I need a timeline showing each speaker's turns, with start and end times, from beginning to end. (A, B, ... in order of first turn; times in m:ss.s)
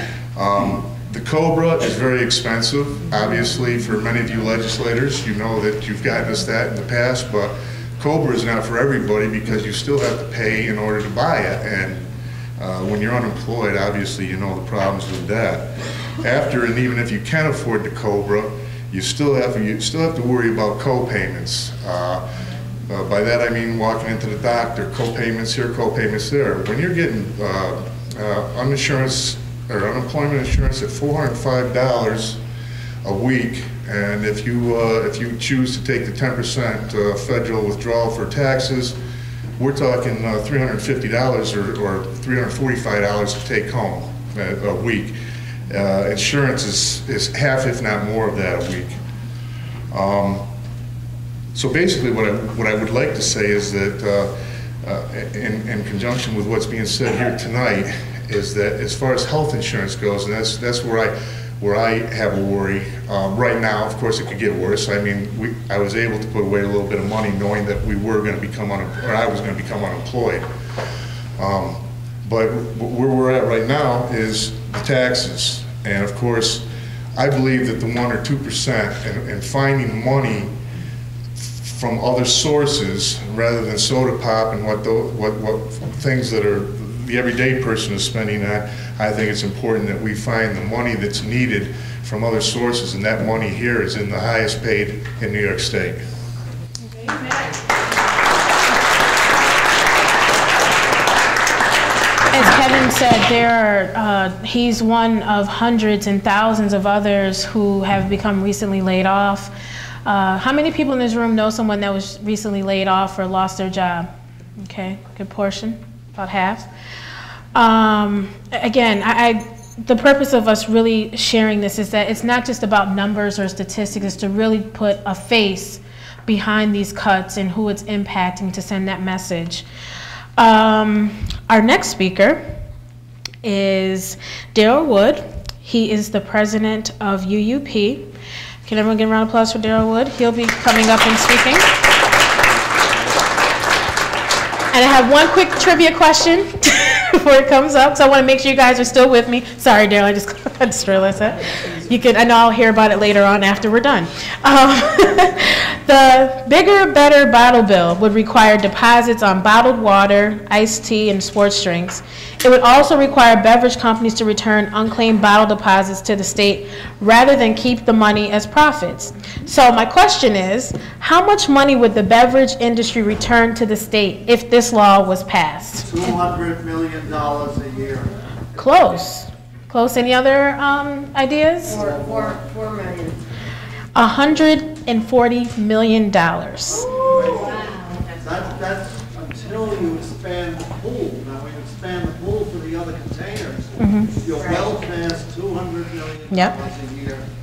0:00.3-0:22.2 A
0:22.9-0:32.4 A
0:33.0-0:39.0 A
0:39.6-0:45.2 A
0:45.7-0:49.0 A
0:49.9-0:50.4 A
0:51.5-1:10.5 A
1:11.4-1:20.5 A
1:21.4-1:36.0 A
1:42.3-1:49.5 B
1:50.0-1:56.7 B
1:57.5-2:09.6 B
2:10.4-2:12.6 B
2:13.4-2:18.1 B
2:18.6-2:21.7 B
2:24.7-2:55.9 B
2:55.8-2:58.1 C
2:58.6-3:01.8 B
3:01.7-3:02.5 C
3:03.9-3:06.8 B
3:07.0-3:07.4 C
3:08.2-3:17.2 C
3:13.8-3:14.1 B